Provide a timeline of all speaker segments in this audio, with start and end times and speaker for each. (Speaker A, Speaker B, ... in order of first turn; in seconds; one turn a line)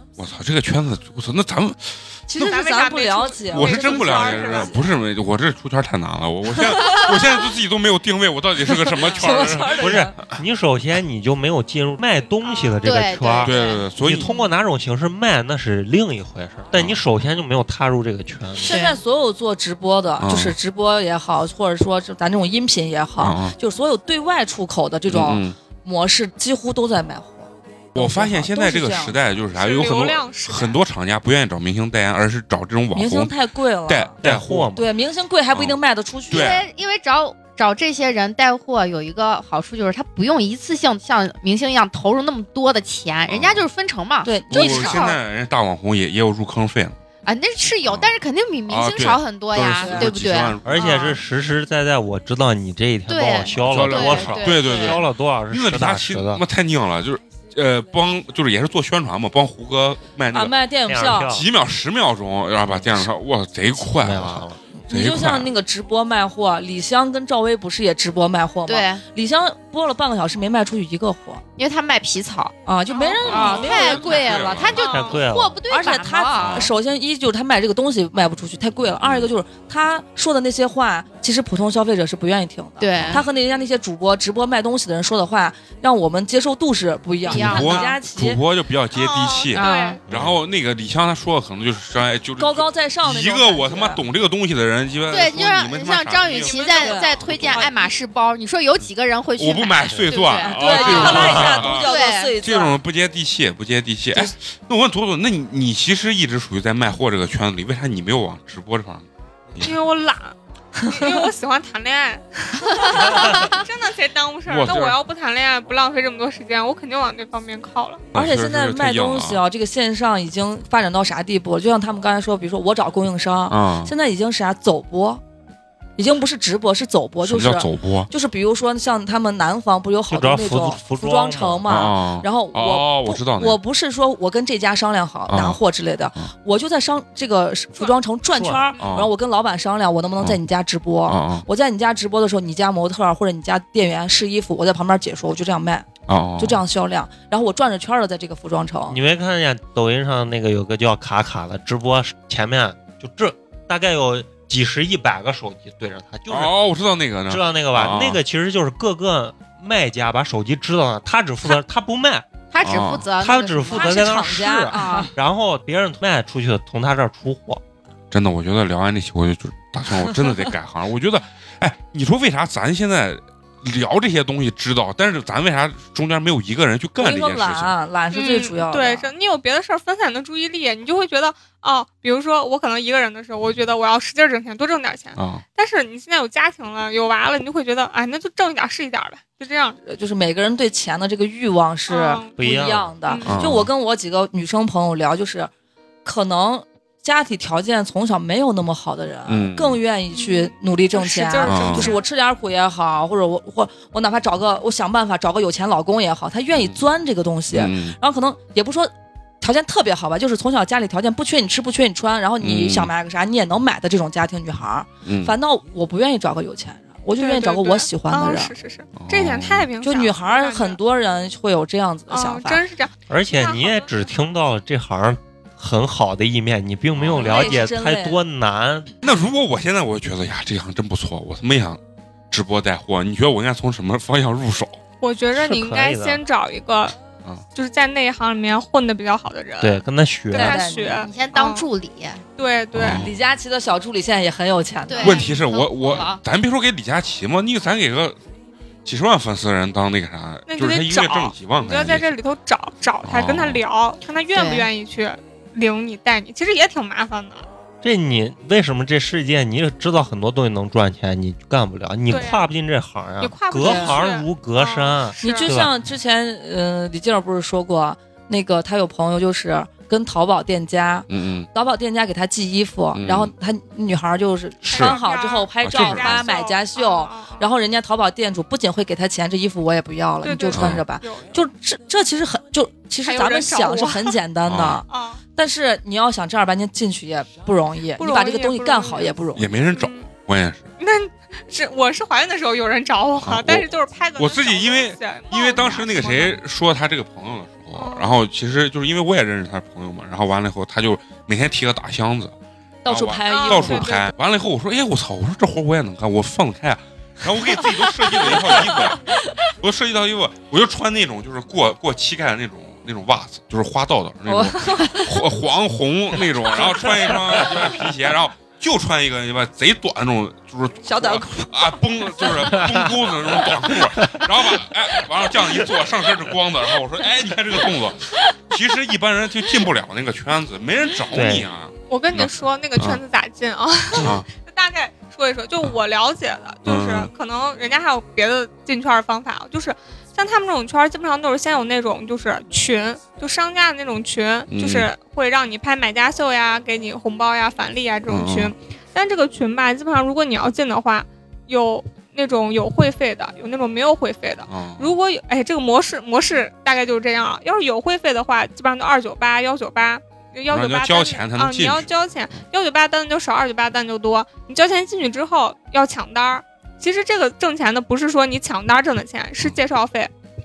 Speaker A: 0.2-2.1
Speaker B: 2.3-4.8
Speaker C: 2.4-4.8
Speaker A: 3.5-10.3
Speaker B: 6.6-7.2
Speaker B: 8.7-10.2
Speaker D: 9.7-18.8
Speaker C: 12.3-12.8
Speaker E: 12.8-13.8
Speaker A: 13.4-14.3
Speaker A: 16.7-17.0
Speaker E: 18.6-19.0
Speaker B: 18.6-29.2
Speaker A: 20.2-20.6
Speaker A: 23.2-23.6
Speaker A: 25.1-25.6
Speaker A: 27.9-33.3
Speaker C: 29.5-30.8
Speaker B: 32.9-34.2
Speaker A: 33.9-34.7
Speaker D: 34.2-34.9
Speaker B: 34.8-36.6
Speaker A: 35.5-36.6
Speaker E: 36.3-45.2
Speaker A: 43.3-43.7
Speaker B: 44.2-45.1
Speaker A: 44.5-47.0
Speaker E: 47.2-51.2
Speaker A: 47.9-48.1
Speaker A: 48.7-51.1
Speaker B: 49.6-50.1
Speaker D: 50.6-56.4
Speaker E: 53.1-55.0
Speaker A: 53.6-60.6
Speaker B: 60.3-61.3
Speaker D: 60.9-61.5
Speaker A: 61.2-65.5
Speaker D: 64.0-64.6
Speaker B: 64.7-71.4
Speaker E: 68.7-69.0
Speaker E: 71.6-72.5
Speaker B: 72.7-74.8
Speaker C: 72.9-73.2
Speaker A: 73.2-74.8
Speaker E: 73.2-76.7
Speaker C: 74.8-75.2
Speaker D: 74.8-75.6
Speaker B: 75.7-88.4
Speaker A: 76.4-76.7
Speaker A: 79.0-79.3
Speaker E: 82.8-83.2
Speaker A: 83.0-83.2
Speaker E: 87.3-88.0
Speaker A: 87.3-97.7
Speaker C: 88.9-90.0
Speaker E: 89.5-90.0
Speaker D: 90.1-90.4
Speaker B: 92.4-94.0
Speaker E: 95.1-102.3
Speaker B: 96.4-97.9
Speaker A: 99.4-109.8
Speaker B: 100.3-102.8
Speaker D: 100.9-101.7
Speaker C: 109.6-118.0
Speaker B: 110.9-111.2
Speaker A: 114.5-115.0
Speaker B: 118.1-125.2
Speaker A: 118.1-119.4
Speaker A: 123.5-123.9
Speaker B: 126.0-149.0
Speaker A: 127.2-128.1
Speaker D: 130.1-131.6
Speaker A: 131.7-133.6
Speaker A: 135.3-135.6
Speaker D: 138.3-138.7
Speaker A: 138.8-139.1
Speaker A: 141.1-141.5
Speaker A: 146.1-146.6
Speaker D: 148.9-156.6
Speaker A: 156.3-158.2
Speaker D: 157.3-162.3
Speaker E: 162.5-164.1
Speaker A: 162.6-163.1
Speaker D: 163.2-167.6
Speaker B: 163.7-165.1
Speaker E: 164.7-165.1
Speaker A: 168.1-177.8
Speaker B: 177.0-179.1
Speaker C: 178.1-189.8
Speaker A: 185.2-185.4
Speaker B: 189.9-195.5
Speaker C: 191.9-192.4
Speaker D: 192.4-192.9
Speaker C: 193.0-193.4
Speaker A: 193.3-193.7
Speaker B: 196.1-218.5
Speaker A: 199.3-199.8
Speaker C: 200.1-202.1
Speaker A: 201.5-201.9
Speaker A: 207.5-208.0
Speaker A: 212.4-212.9
Speaker A: 215.1-215.4
Speaker C: 217.2-220.8
Speaker A: 219.0-219.7
Speaker B: 219.8-222.6
Speaker C: 222.1-223.9
Speaker D: 223.1-228.9
Speaker A: 226.9-227.6
Speaker B: 227.1-228.2
Speaker A: 229.0-231.8
Speaker A: 232.3-234.8
Speaker C: 235.0-237.0
Speaker D: 235.4-236.2
Speaker C: 237.6-241.7
Speaker D: 239.6-240.6
Speaker B: 240.3-241.1
Speaker E: 240.9-242.2
Speaker C: 242.4-243.1
Speaker A: 242.7-243.1
Speaker B: 242.8-245.2
Speaker E: 244.9-246.2
Speaker A: 245.0-248.2
Speaker A: 248.8-252.1
Speaker C: 250.5-257.5
Speaker A: 253.1-253.6
Speaker E: 254.3-254.7
Speaker D: 257.8-265.8
Speaker C: 262.1-262.5
Speaker C: 263.2-265.5
Speaker B: 263.6-264.0
Speaker B: 265.2-289.5
Speaker A: 271.1-271.5
Speaker A: 272.9-273.3
Speaker A: 274.6-275.0
Speaker C: 274.7-277.5
Speaker A: 275.6-276.3
Speaker C: 280.2-281.4
Speaker A: 280.5-280.8
Speaker C: 283.0-284.2
Speaker A: 284.4-284.8
Speaker C: 284.9-285.2
Speaker C: 288.0-289.1
Speaker A: 289.4-290.7
Speaker C: 289.7-290.1
Speaker C: 290.8-296.4
Speaker A: 293.2-302.3
Speaker C: 297.8-298.2
Speaker B: 302.9-303.9
Speaker A: 302.9-333.0
Speaker C: 303.3-304.1
Speaker B: 307.6-309.3
Speaker B: 314.3-315.2
Speaker B: 320.9-322.3
Speaker D: 322.6-322.9
Speaker D: 323.5-324.2
Speaker D: 331.1-331.4
Speaker C: 331.9-370.1
Speaker D: 334.0-334.2
Speaker A: 334.0-334.3
Speaker A: 336.7-337.1
Speaker A: 344.5-344.9
Speaker A: 348.1-348.5
Speaker A: 354.5-355.0
Speaker A: 360.5-361.9